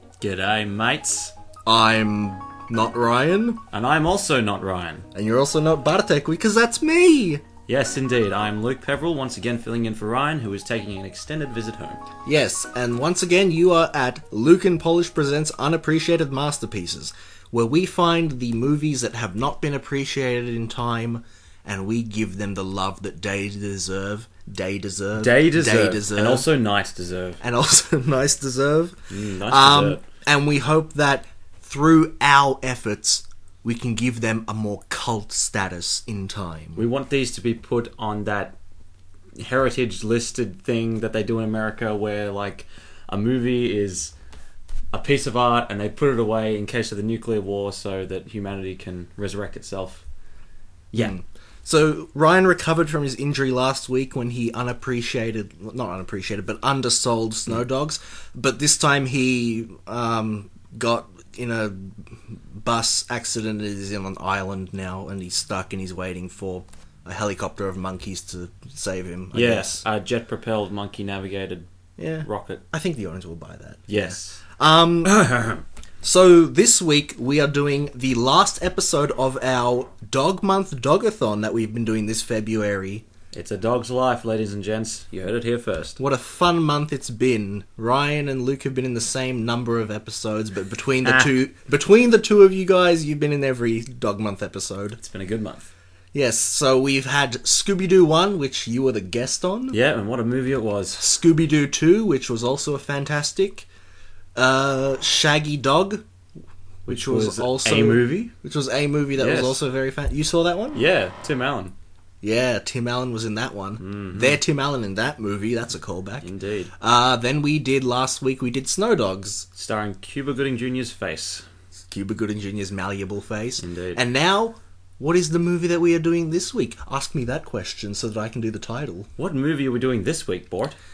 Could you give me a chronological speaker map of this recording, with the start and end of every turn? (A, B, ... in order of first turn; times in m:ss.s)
0:00.2-0:01.3 A
0:01.7-0:03.6 B
0:03.7-0:05.1 A
0:05.1-0:07.4 B
0:07.7-0:12.0 A
0:12.3-0:26.5 B
0:25.2-0:27.4 A
0:27.4-0:36.8 B
0:29.1-0:30.0 A
0:36.8-0:38.6 A
0:39.4-0:44.1 A
0:44.9-0:50.0 A
0:51.0-1:09.8 B
1:09.3-1:11.7 A
1:12.0-1:15.2 B
1:12.2-1:12.6 A
1:13.9-1:14.4 A
1:15.0-1:15.6 A
1:16.0-1:23.0 B
1:23.3-1:26.0 A
1:26.0-1:35.0 B
1:31.0-1:31.4 A
1:35.0-1:35.7 A
1:36.1-1:39.8 B
1:39.7-1:41.0 A
1:41.0-1:43.7 B
1:44.4-1:46.0 B
1:46.9-1:48.3 A
1:46.9-1:50.8 B
1:49.2-1:49.6 A
1:50.7-1:51.8 A
1:52.2-1:56.3 B
1:53.8-1:54.4 A
1:56.2-1:56.7 A
1:56.8-1:59.5 B
1:59.6-2:01.5 A
2:01.9-2:09.1 B
2:03.6-2:04.0 A
2:09.2-2:10.8 A